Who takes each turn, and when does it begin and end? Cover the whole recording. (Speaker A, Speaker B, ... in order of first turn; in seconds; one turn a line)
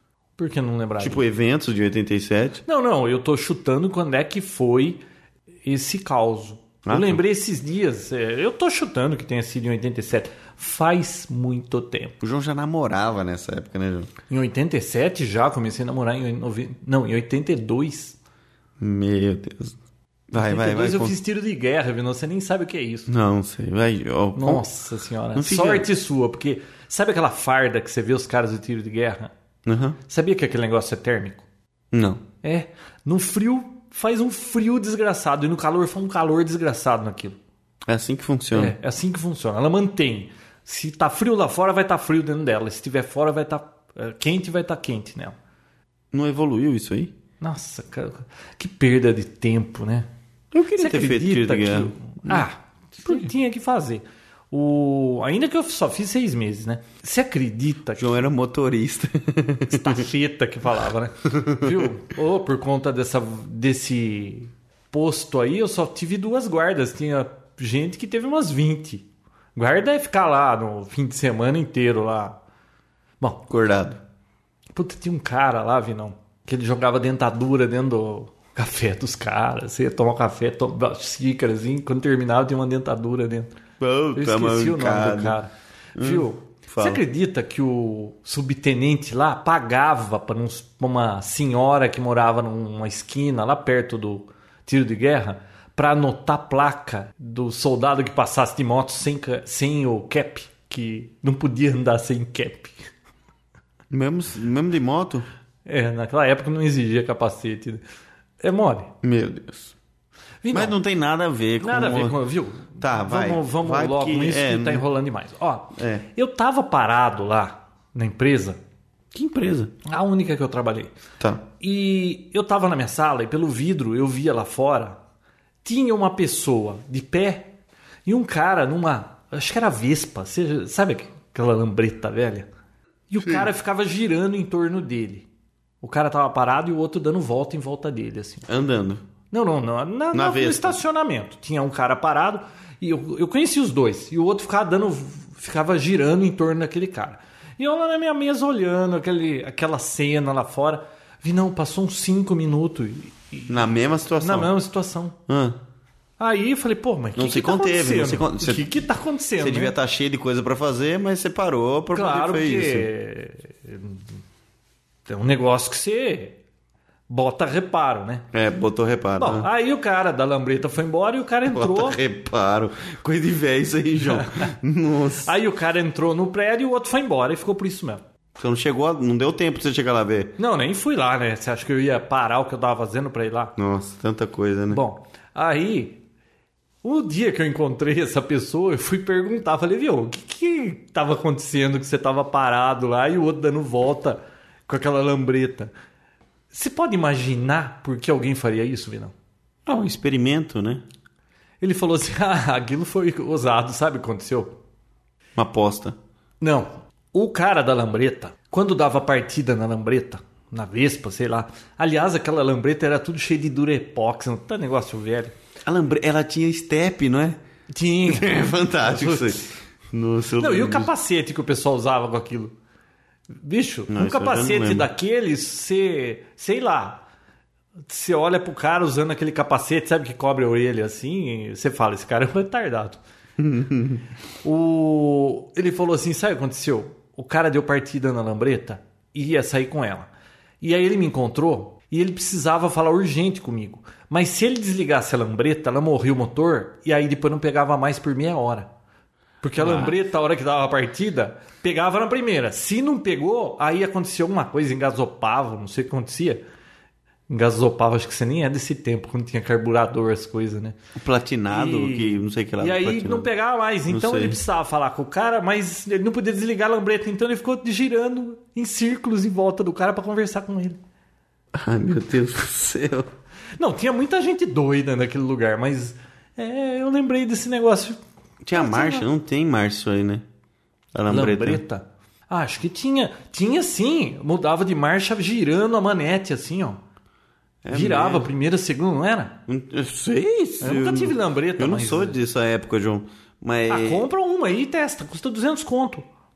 Speaker A: 0.4-1.2
Speaker B: 1.0-2.6
Speaker A: 2.6-5.0
Speaker A: 5.6-12.1
Speaker B: 6.8-7.2
Speaker B: 12.2-14.1
Speaker A: 14.3-18.2
Speaker B: 18.8-19.8
Speaker B: 20.3-21.1
Speaker A: 20.4-23.1
Speaker B: 23.1-24.6
Speaker A: 24.4-29.3
Speaker B: 25.3-25.9
Speaker B: 29.6-30.0
Speaker A: 30.1-31.4
Speaker B: 31.9-32.2
Speaker A: 32.4-37.4
Speaker B: 37.9-38.8
Speaker A: 38.5-45.4
Speaker B: 46.1-47.1
Speaker A: 47.4-50.1
Speaker B: 50.5-52.5
Speaker A: 50.8-58.2
Speaker B: 53.0-53.3
Speaker B: 58.0-60.1
Speaker A: 59.7-72.4
Speaker B: 61.2-61.9
Speaker B: 73.5-74.0
Speaker A: 74.7-83.5
Speaker B: 83.8-85.4
Speaker A: 84.1-102.8
Speaker B: 86.0-87.0
Speaker B: 103.9-105.2
Speaker A: 105.7-107.8
Speaker A: 108.4-108.9
Speaker B: 109.0-109.8
Speaker A: 110.4-110.8
Speaker B: 110.5-112.2
Speaker A: 111.6-118.6
Speaker B: 112.8-114.8
Speaker B: 115.8-116.0
Speaker B: 119.1-119.7
Speaker A: 119.8-120.9
Speaker B: 121.2-121.4
Speaker A: 121.6-125.0
Speaker A: 125.6-127.5
Speaker A: 128.1-132.5
Speaker A: 133.1-135.3
Speaker A: 135.8-138.5
Speaker B: 138.5-139.0
Speaker A: 139.3-155.2
Speaker B: 140.1-140.8
Speaker B: 153.5-154.5
Speaker B: 155.3-155.6
Speaker A: 156.2-159.7
Speaker B: 157.2-158.8
Speaker B: 159.4-162.9
Speaker A: 161.9-164.0
Speaker A: 165.1-166.4
Speaker A: 167.1-168.2
Speaker B: 168.3-169.5
Speaker A: 169.2-172.0
Speaker B: 171.4-175.3
Speaker A: 174.1-174.5
Speaker A: 175.1-178.0
Speaker B: 178.3-180.3
Speaker A: 180.4-183.5
Speaker B: 183.6-184.8
Speaker A: 184.7-186.0
Speaker A: 186.8-195.7
Speaker A: 196.5-199.1
Speaker B: 199.7-200.8
Speaker A: 201.6-204.6
Speaker B: 205.3-206.0
Speaker A: 206.4-215.3
Speaker B: 215.6-217.4
Speaker A: 217.7-219.5
Speaker B: 218.0-220.9
Speaker A: 220.4-222.5
Speaker A: 223.4-227.0
Speaker B: 223.9-224.9
Speaker A: 227.9-233.0
Speaker B: 233.4-234.0
Speaker A: 234.4-240.1
Speaker A: 240.6-248.7
Speaker A: 249.4-256.4
Speaker B: 249.6-249.9
Speaker A: 257.3-260.8
Speaker B: 260.9-263.3
Speaker A: 261.5-270.8
Speaker B: 263.9-264.4
Speaker B: 271.5-273.1
Speaker A: 273.6-278.0
Speaker B: 278.4-280.2
Speaker A: 278.5-279.0
Speaker B: 280.9-281.6
Speaker A: 281.1-286.8
Speaker B: 287.6-288.3
Speaker A: 287.7-289.4
Speaker B: 289.5-294.1
Speaker A: 290.6-292.2
Speaker A: 293.7-296.1